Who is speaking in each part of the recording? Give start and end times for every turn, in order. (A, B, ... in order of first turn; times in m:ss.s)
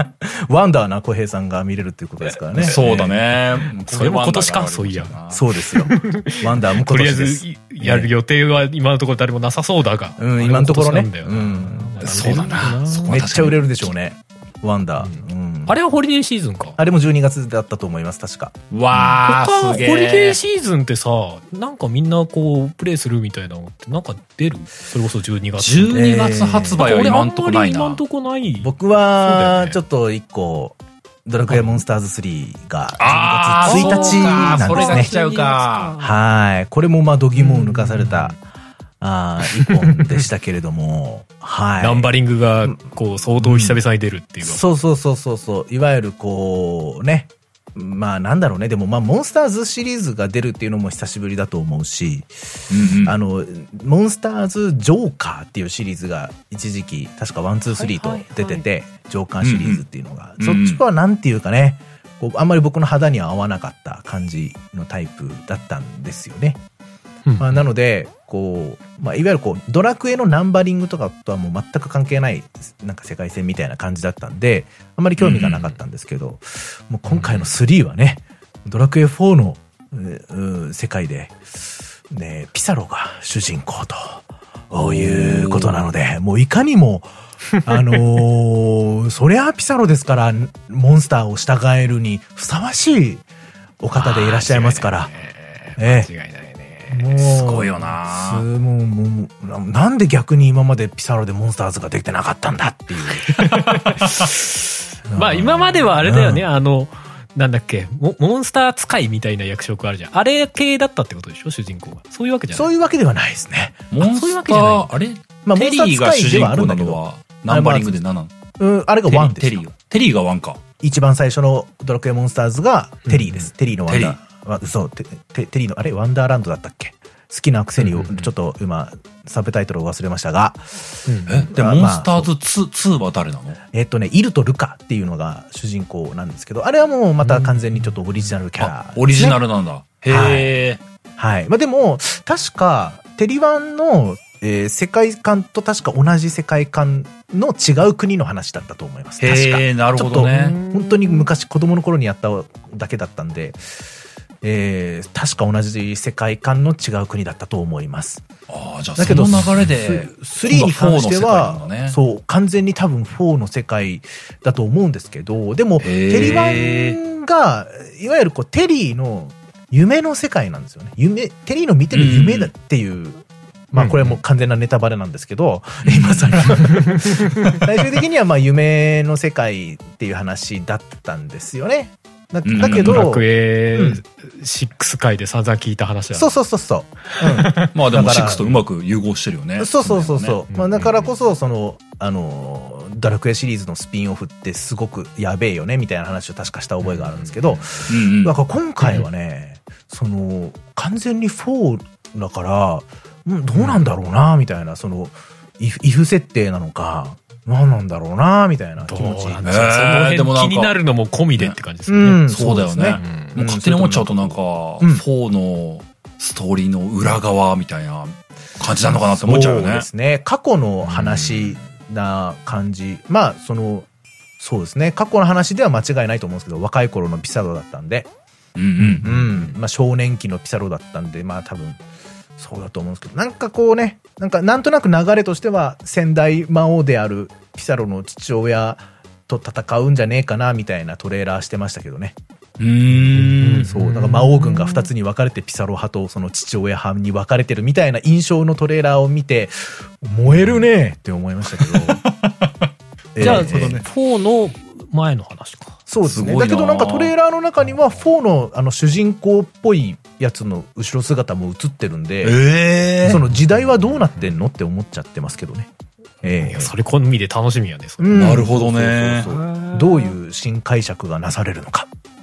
0:00.2-0:03.2 A
0:02.6-0:05.4 B
0:03.8-0:13.2 C
0:05.3-0:08.1 A
0:10.2-0:11.9 A
0:12.0-0:13.9 B
0:13.1-0:15.8 A
0:15.0-0:16.8 C
0:16.8-0:18.5 A
0:18.7-0:20.4 B
0:18.9-0:29.8 C
0:25.6-0:28.0 B
0:25.9-0:26.8 A
0:28.6-0:35.1 A
0:31.5-0:31.8 C
0:33.0-0:35.9 B
0:33.6-0:36.2 C
0:36.0-0:38.3 A
0:37.4-0:38.4 C
0:39.0-0:42.1 A
0:39.6-0:40.2 C
0:41.8-0:44.6 C
0:43.4-0:43.8 A
0:44.4-0:52.3 A
0:52.7-0:53.2 B
0:53.0-1:06.6 A
0:57.7-0:58.6 C
0:59.4-0:59.8 B
1:00.4-1:00.8 B
1:07.2-1:07.6 C
1:07.4-1:21.4 A
1:15.2-1:15.5 B
1:15.4-1:15.8 C
1:17.1-1:17.5 C
1:22.1-1:27.1 A
1:27.6-1:33.2 A
1:33.8-1:35.1 A
1:33.9-1:37.1 C
1:35.8-1:36.1 A
1:36.9-1:43.6 A
1:37.2-1:38.4 B
1:43.0-1:52.7 C
1:45.1-1:46.4 A
1:52.5-1:53.9 A
1:53.9-1:58.3 B
1:54.0-1:54.9 C
1:55.4-1:58.0 A
1:58.6-1:59.7 A
1:59.0-2:00.6 B
2:00.8-2:12.3 A
2:03.0-2:03.5 C
2:03.9-2:04.2 B
2:07.8-2:08.3 C
2:11.1-2:11.5 C
2:11.3-2:13.6 B
2:13.7-2:19.4 A
2:17.2-2:17.9 C
2:18.6-2:20.8 B
2:20.1-2:20.5 A
2:21.2-2:33.6 A
2:29.2-2:30.6 B
2:30.2-2:31.3 C
2:34.4-2:38.2 A
2:38.5-2:42.0 B
2:39.0-3:04.0 A
2:45.8-2:47.0 B
2:51.9-2:52.5 B
2:53.7-2:54.2 C
2:55.8-2:56.5 B
2:56.6-2:57.6 C
3:02.4-3:03.1 B
3:02.6-3:06.4 C
3:06.1-3:08.5 A
3:07.2-3:07.7 C
3:07.7-3:10.4 B
3:09.6-3:29.4 A
3:10.5-3:11.1 C
3:16.8-3:17.9 C
3:17.9-3:18.3 B
3:23.6-3:23.8 C
3:28.8-3:32.2 C
3:29.4-3:30.8 B
3:31.9-3:35.0 A
3:32.3-3:39.9 B
3:33.0-3:33.4 C
3:39.1-3:43.9 A
3:40.8-3:41.6 C
3:44.4-3:48.1 A
3:48.6-3:49.5 B
3:48.8-3:51.8 A
3:52.4-4:02.2 A
4:02.6-4:03.7 B
4:03.1-4:04.9 C
4:03.2-4:12.0 A
4:11.6-4:13.8 B
4:13.1-4:13.8 A
4:13.2-4:15.8 C
4:15.9-4:22.4 A
4:16.0-4:17.1 B
4:17.6-4:18.0 C
4:22.2-4:23.2 B
4:23.0-4:25.7 A
4:23.0-4:24.3 C
4:26.2-4:26.7 A
4:26.4-4:28.5 C
4:28.0-4:31.9 A
4:28.1-4:29.3 B
4:29.3-4:30.1 C